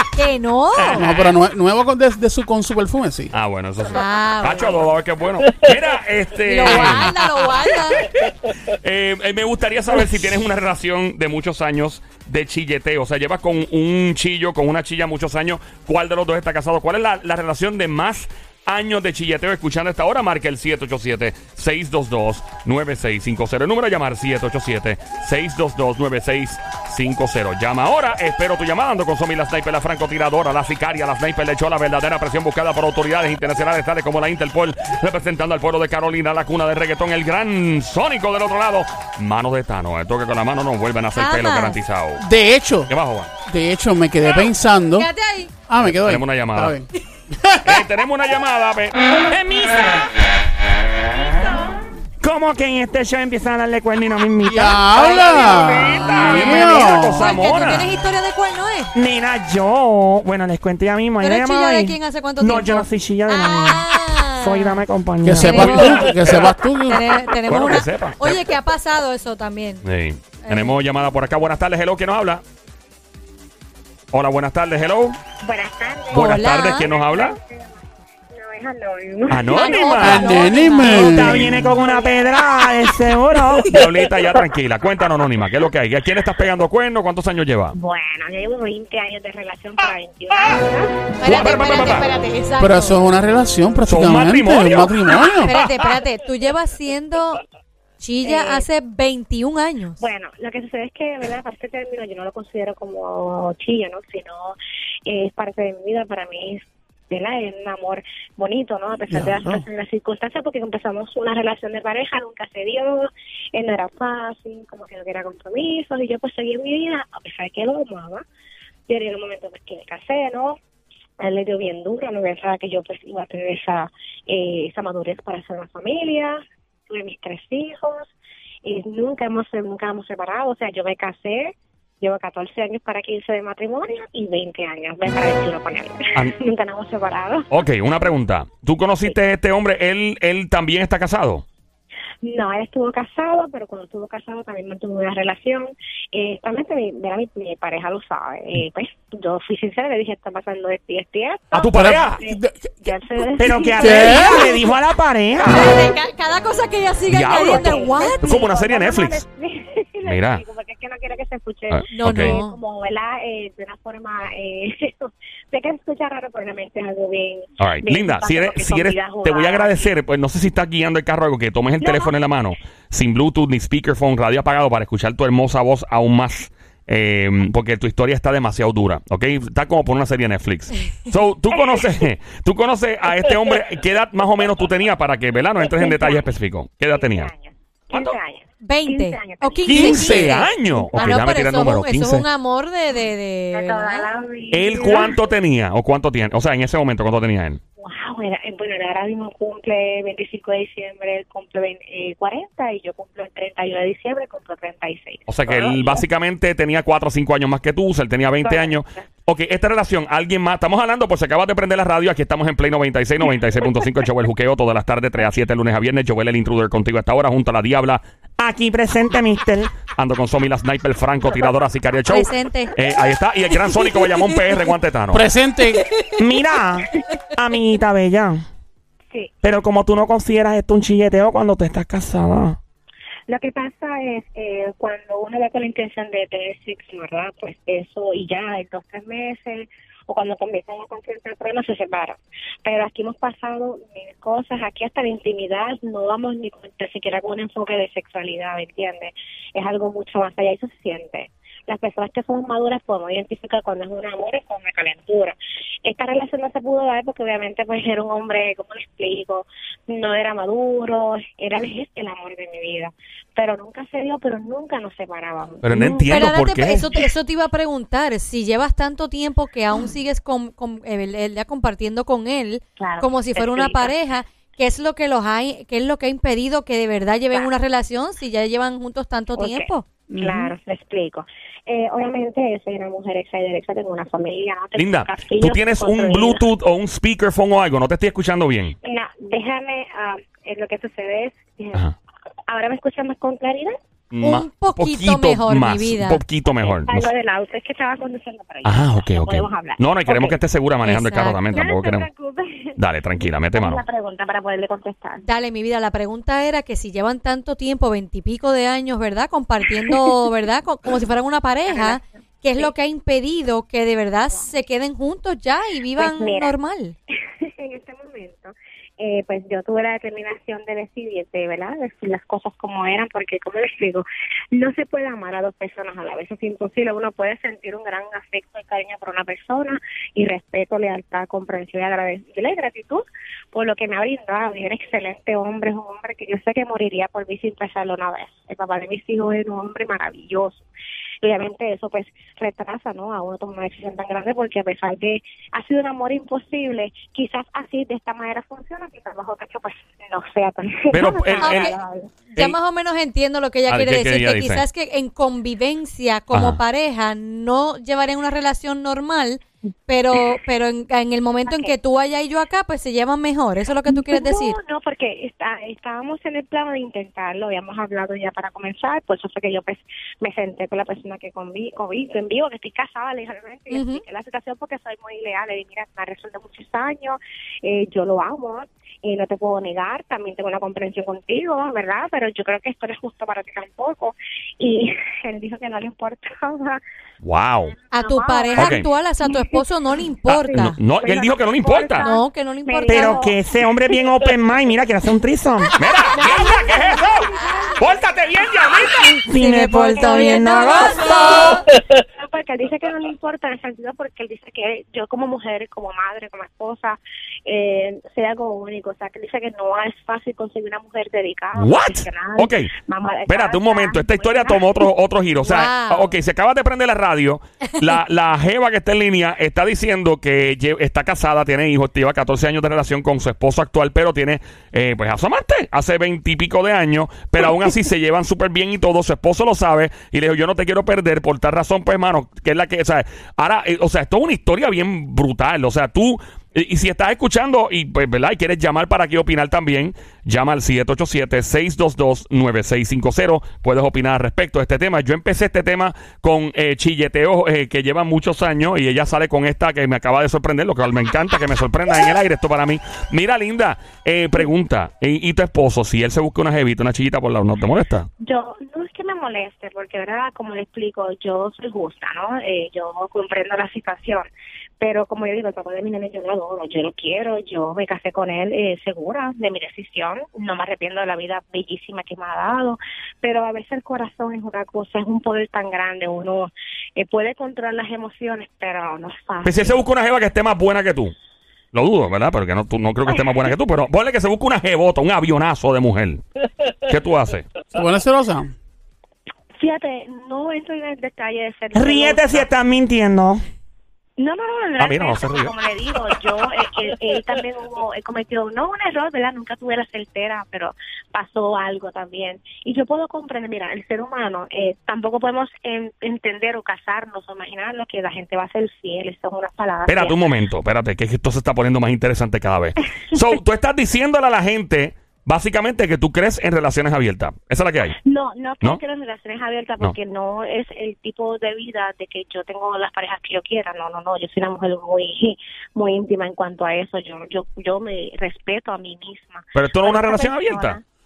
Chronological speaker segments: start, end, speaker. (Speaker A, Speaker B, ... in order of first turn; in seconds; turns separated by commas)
Speaker A: 0.1-1.0, Speaker B: 0.8-1.4, Speaker C: 0.9-3.3, Speaker B: 3.3-7.1, Speaker A: 3.9-4.8, Speaker A: 6.4-8.1, Speaker C: 6.7-7.2, Speaker B: 8.0-42.2, Speaker A: 41.1-41.8, Speaker C: 42.2-42.9, Speaker B: 42.9-43.3, Speaker C: 43.5-45.1, Speaker A: 44.9-45.5, Speaker C: 45.7-47.8, Speaker B: 45.8-46.8, Speaker B: 47.6-50.0, Speaker D: 52.2-55.3, Speaker C: 54.4-57.3, Speaker B: 55.0-57.9, Speaker A: 55.0-58.9, Speaker D: 58.9-65.7, Speaker A: 61.2-64.8, Speaker C: 65.2-67.1, Speaker A: 65.3-66.2, Speaker B: 65.4-66.5, Speaker A: 66.8-69.8, Speaker B: 67.5-68.4, Speaker B: 69.8-72.4, Speaker A: 70.4-70.7, Speaker B: 74.1-75.2, Speaker E: 75.4-82.5, Speaker B: 76.1-77.3, Speaker A: 76.1-76.9, Speaker B: 79.3-80.3, Speaker A: 79.5-81.3, Speaker C: 80.0-81.8, Speaker D: 80.9-83.8, Speaker B: 83.6-87.8, Speaker E: 87.7-91.0, Speaker A: 91.2-93.0, Speaker B: 91.2-92.1, Speaker C: 92.6-95.5, Speaker B: 93.9-96.0, Speaker A: 95.4-97.4, Speaker A: 98.0-100.0, Speaker E: 98.2-98.7, Speaker E: 100.0-118.2, Speaker C: 109.1-109.6, Speaker E: 118.9-120.6, Speaker E: 121.2-128.1, Speaker E: 128.6-137.5, Speaker B: 137.5-141.4, Speaker E: 142.2-154.6, Speaker B: 151.5-152.2, Speaker C: 151.7-153.2, Speaker D: 153.4-155.8, Speaker C: 153.8-154.6, Speaker A: 155.4-158.4, Speaker B: 157.1-159.2, Speaker E: 157.3-169.9, Speaker B: 160.0-160.4, Speaker B: 161.7-162.4, Speaker A: 161.9-162.6, Speaker B: 167.6-187.3, Speaker E: 171.8-172.1, Speaker E: 185.7-186.3, Speaker E: 186.9-191.1, Speaker B: 187.9-188.2, Speaker A: 188.6-194.1, Speaker B: 189.7-192.2, Speaker E: 193.5-195.2, Speaker B: 194.5-197.6, Speaker E: 197.8-206.0, Speaker B: 205.3-218.0, Speaker E: 208.4-209.0, Speaker D: 218.4-219.8, Speaker B: 219.8-225.2, Speaker A: 222.1-222.7, Speaker A: 223.7-224.4, Speaker C: 225.1-225.8, Speaker A: 225.8-226.2, Speaker D: 226.2-228.4, Speaker D: 229.4-232.6, Speaker E: 233.3-266.3, Speaker B: 265.6-266.9, Speaker A: 266.1-279.8, Speaker E: 272.8-273.9, Speaker E: 279.4-286.4, Speaker C: 280.1-280.5, Speaker B: 284.8-288.7, Speaker E: 288.8-291.9, Speaker E: 292.5-293.8, Speaker B: 294.1-297.1, Speaker A: 294.2-296.2, Speaker E: 296.4-300.4, Speaker B: 298.6-302.1, Speaker A: 300.8-301.4, Speaker E: 301.5-302.8, Speaker B: 302.8-303.8, Speaker E: 303.5-305.2, Speaker A: 305.2-316.9, Speaker E: 311.7-312.7, Speaker E: 316.0-316.5, Speaker E: 317.1-340.6, Speaker E: 341.2-352.1, Speaker B: 350.9-351.7, Speaker A: 351.4-351.7, Speaker A: 352.3-364.6, Speaker B: 353.7-354.6, Speaker B: 356.3-356.6, Speaker E: 361.5-361.7, Speaker E: 363.9-386.8, Speaker A: 373.7-374.0, Speaker B: 387.2-387.7, Speaker A: 387.9-390.8, Speaker E: 387.9-389.6, Speaker B: 388.5-388.9, Speaker B: 390.3-392.1, Speaker E: 390.4-393.4, Speaker A: 392.0-393.2, Speaker D: 392.9-395.8, Speaker B: 395.8-399.2, Speaker E: 396.1-398.8, Speaker D: 399.2-401.5, Speaker A: 399.3-401.6, Speaker E: 400.0-414.9, Speaker B: 411.5-412.7, Speaker B: 413.3-458.1, Speaker A: 415.4-416.1, Speaker E: 458.2-464.3, Speaker E: 464.8-479.8, Speaker B: 479.4-481.1, Speaker B: 481.7-486.2, Speaker B: 486.9-487.5, Speaker C: 487.7-488.5, Speaker E: 489.6-492.5, Speaker D: 491.7-493.4, Speaker E: 494.2-510.2, Speaker B: 494.8-495.5, Speaker B: 509.9-518.0, Speaker E: 518.0-530.8, Speaker B: 529.5-530.8